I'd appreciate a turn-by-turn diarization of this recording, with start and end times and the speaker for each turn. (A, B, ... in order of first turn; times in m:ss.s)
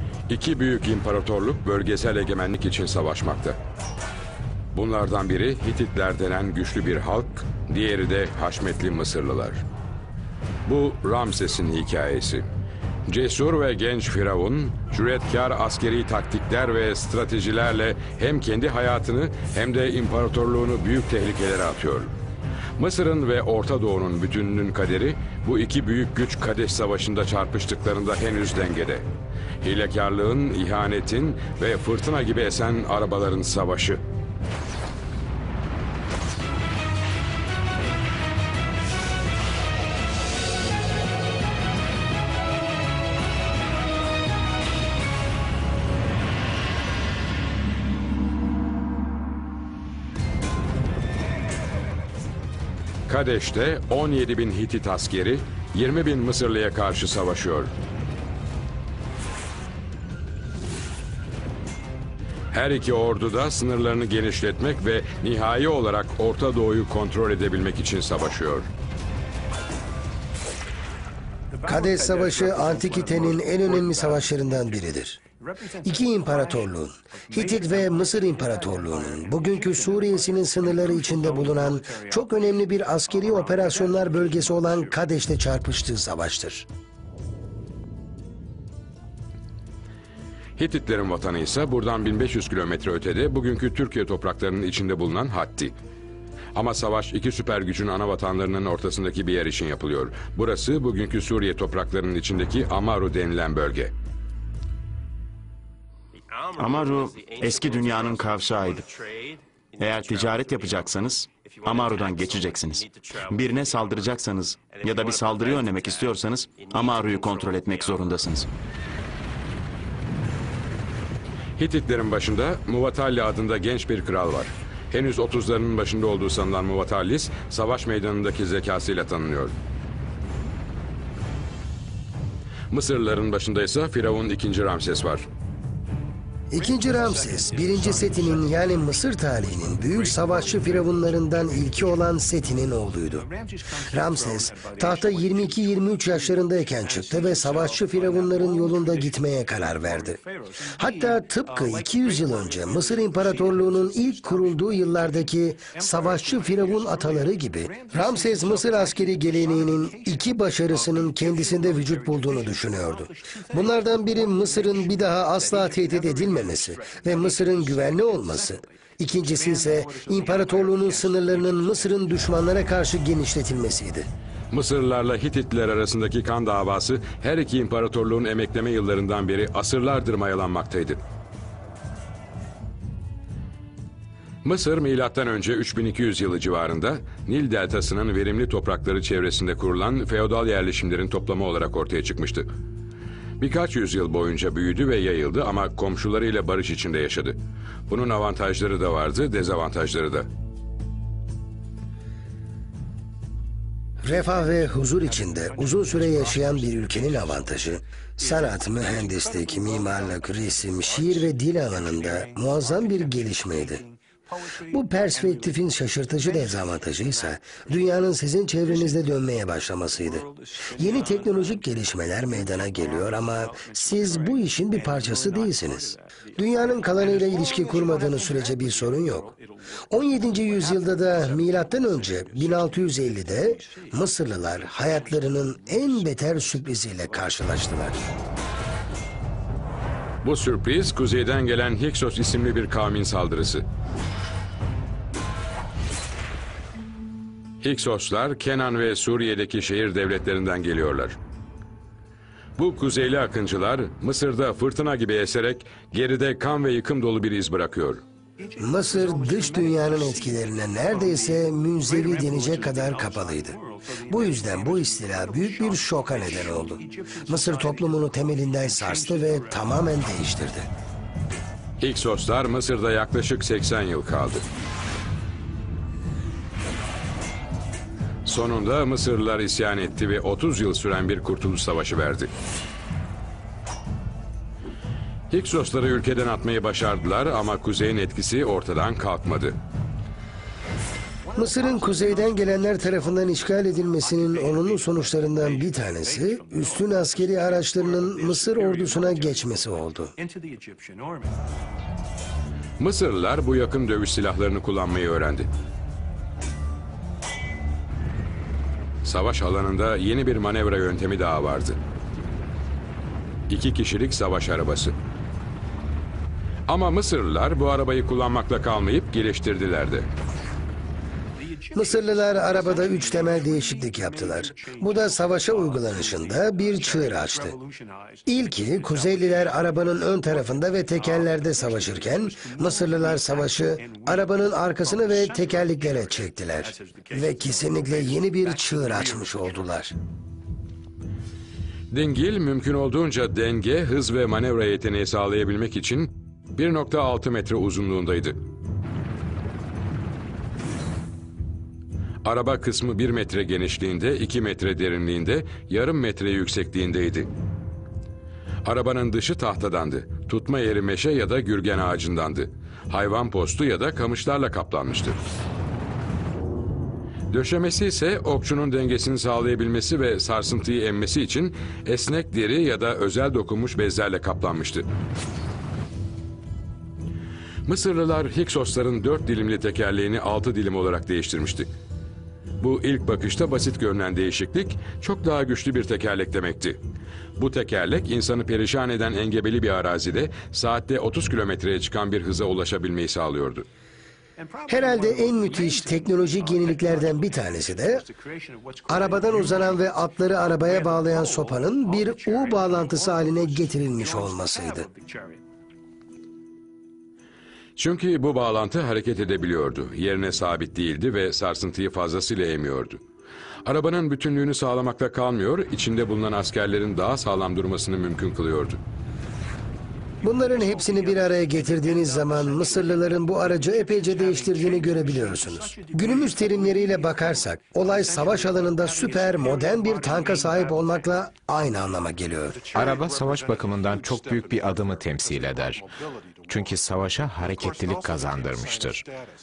0:00.3-0:03.6 A
0:04.7-0:09.6 A
0:10.7-0:12.5 A
0:13.1-0:22.1 A
0:22.8-0:29.1 A
0:29.6-0:34.0 A
0:53.1-0:57.7 A
1:02.5-1:08.7 A
1:11.6-1:15.2 B
1:15.8-1:26.7 B
1:30.6-1:35.8 A
1:36.6-1:43.9 A
1:46.6-1:48.9 C
1:49.8-1:58.5 C
2:01.6-2:09.5 A
2:12.7-2:15.3 A
2:16.5-2:23.3 B
2:23.9-2:30.2 B
2:30.8-2:54.1 B
2:54.5-3:01.0 A
3:04.4-3:12.5 A
3:13.4-3:17.4 A
3:17.9-3:20.3 A
3:24.0-3:33.9 B
3:34.7-3:49.3 B
3:49.9-3:58.0 B
4:00.2-4:03.6 A
4:07.6-4:11.2 A
4:12.6-4:18.0 A
4:18.6-4:30.7 B
4:31.8-4:34.4 A
4:38.3-4:42.3 A
4:45.3-4:49.6 A
4:51.4-5:00.2 B
5:02.8-5:05.5 A
5:09.0-5:11.8 A
5:13.5-5:14.9 A
5:16.7-5:20.1 A
5:21.7-5:27.6 B
5:28.3-5:39.9 B
5:41.9-5:48.4 A
5:52.2-5:57.3 A
5:58.6-6:05.2 A
6:07.3-6:14.9 A
6:17.7-6:21.7 A
6:22.6-6:26.8 A
6:27.4-6:33.7 A
6:34.7-6:38.1 B
6:38.9-6:44.9 B
6:47.8-6:53.0 A
6:53.6-6:58.8 A
7:00.2-7:12.7 B
7:12.7-7:15.9 D
7:16.5-7:19.1 D